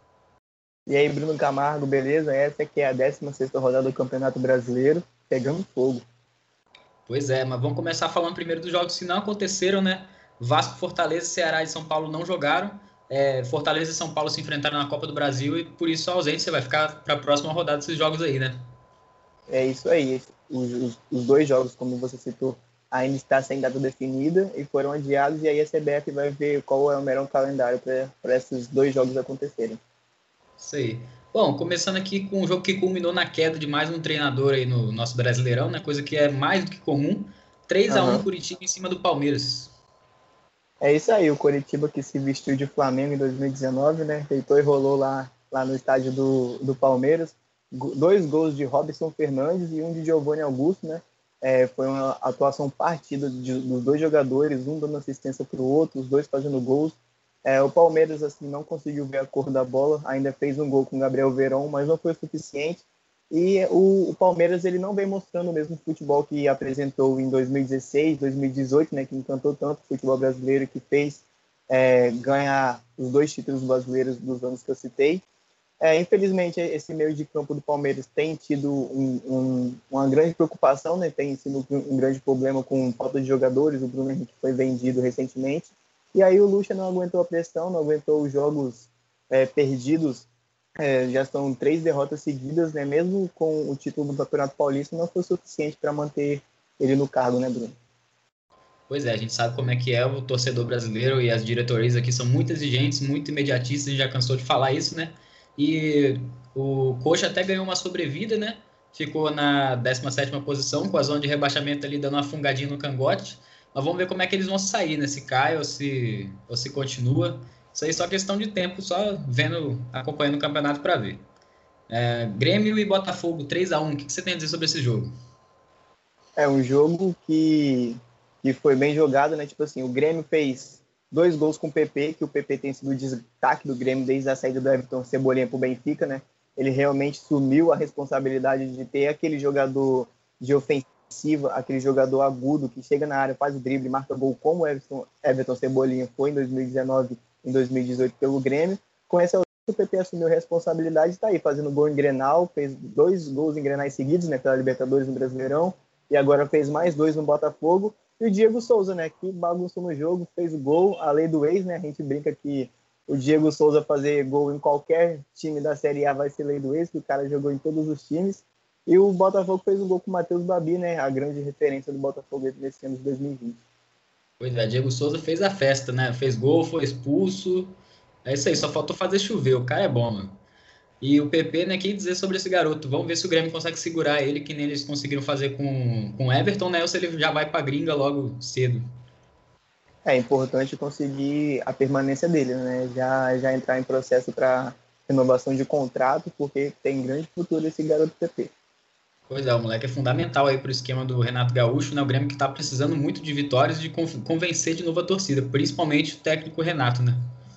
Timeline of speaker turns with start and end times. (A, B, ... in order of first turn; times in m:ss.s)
0:00.9-0:06.0 A
0:07.1-0:18.6 B
0:19.5-0:29.8 A
0:30.6-0:39.7 B
0:37.9-0:38.3 A
0:40.8-1:15.2 A
1:15.8-1:30.3 A
1:30.8-1:37.8 A
1:38.9-2:01.2 B
2:01.9-2:05.1 B
2:06.4-2:53.6 A
2:54.4-3:00.4 B
3:01.0-3:08.8 B
3:10.0-3:18.5 A
3:19.3-3:27.2 B